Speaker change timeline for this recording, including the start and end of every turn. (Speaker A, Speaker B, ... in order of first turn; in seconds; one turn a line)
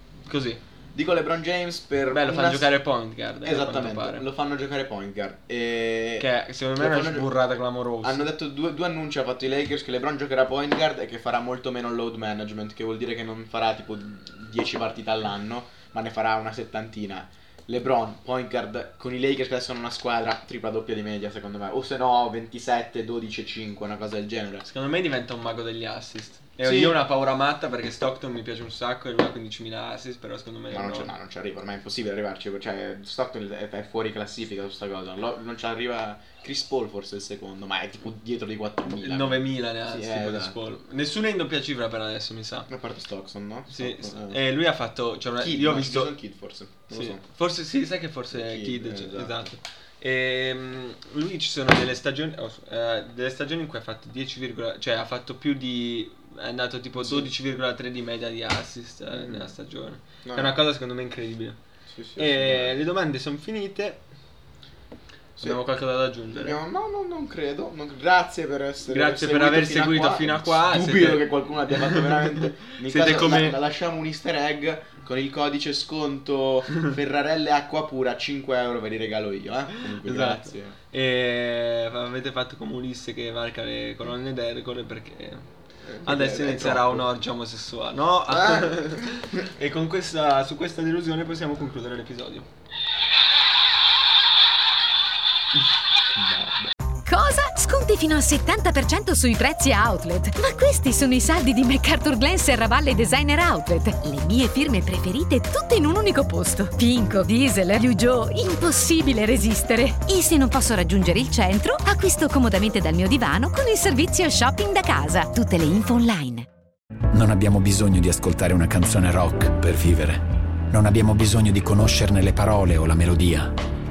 Speaker A: 0.2-0.6
Speaker B: 0.9-2.7
Speaker A: 2.1-4.2
Speaker B: 3.4-6.2
Speaker A: 6.2-8.2
Speaker B: 6.8-7.3
Speaker B: 8.0-24.6
Speaker A: 24.6-31.1
Speaker B: 26.6-27.0
Speaker B: 30.7-40.5
Speaker A: 38.9-42.7
Speaker B: 42.7-44.4
Speaker A: 43.7-46.2
Speaker B: 45.4-47.2
Speaker A: 46.9-61.6
Speaker B: 48.3-49.5
Speaker B: 57.0-57.3
Speaker B: 59.1-59.5
Speaker B: 60.2-60.5
Speaker B: 61.9-62.7
Speaker A: 62.2-64.0
Speaker A: 65.4-66.6
Speaker B: 66.3-80.8
Speaker A: 68.9-73.6
Speaker A: 79.9-85.4
Speaker B: 85.8-87.0
Speaker A: 86.0-92.5
Speaker B: 88.3-88.8
Speaker B: 96.1-96.7
Speaker C: 97.0-116.5
Speaker D: 117.1-123.5